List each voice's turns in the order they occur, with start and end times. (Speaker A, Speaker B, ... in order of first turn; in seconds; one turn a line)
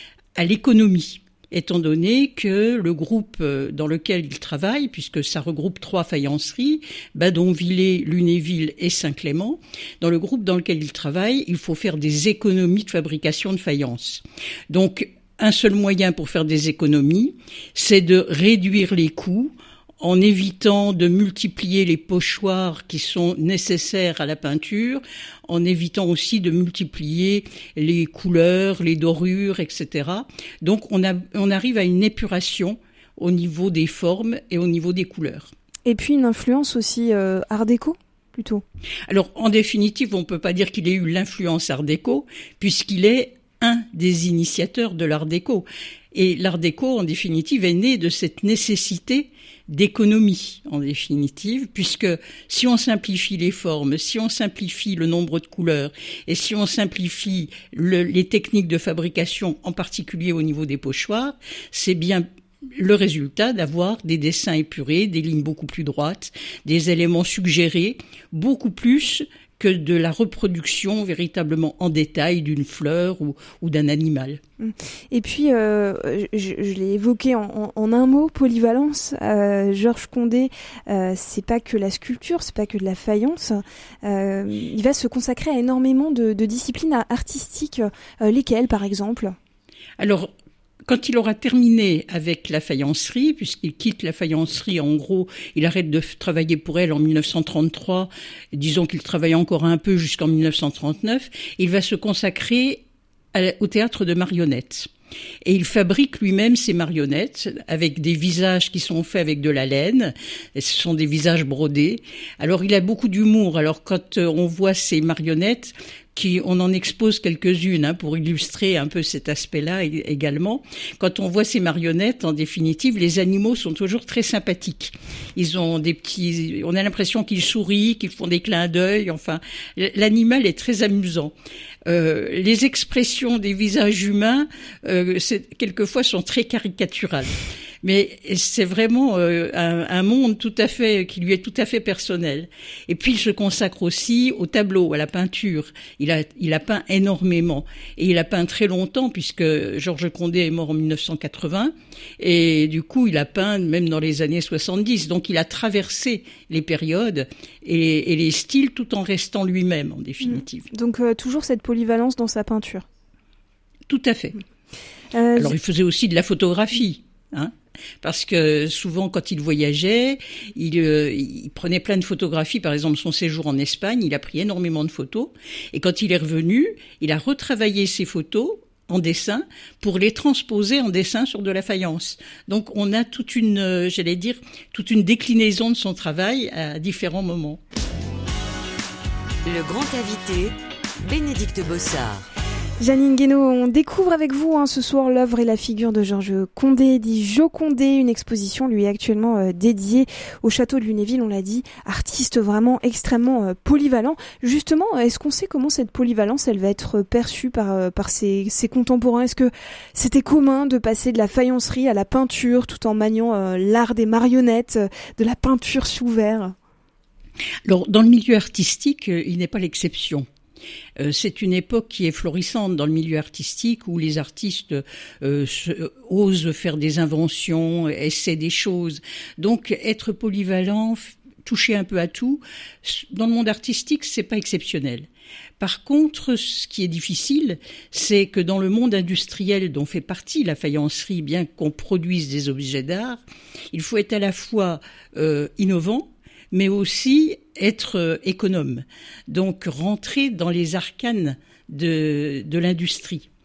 Speaker A: 0.3-35.5
Speaker B: 35.9-38.6
Speaker A: 39.1-74.4
Speaker B: 74.6-89.3
Speaker A: 90.0-90.3
Speaker A: 90.8-104.9
Speaker A: 105.4-131.3
Speaker A: 131.8-160.7
Speaker B: 160.2-162.8
Speaker A: 163.9-164.4
Speaker B: 165.1-165.5
Speaker A: 165.4-187.6
Speaker C: 189.4-192.2
Speaker B: 192.8-216.5
Speaker A: 217.6-220.2
Speaker A: 221.0-235.1
Speaker A: 235.6-253.3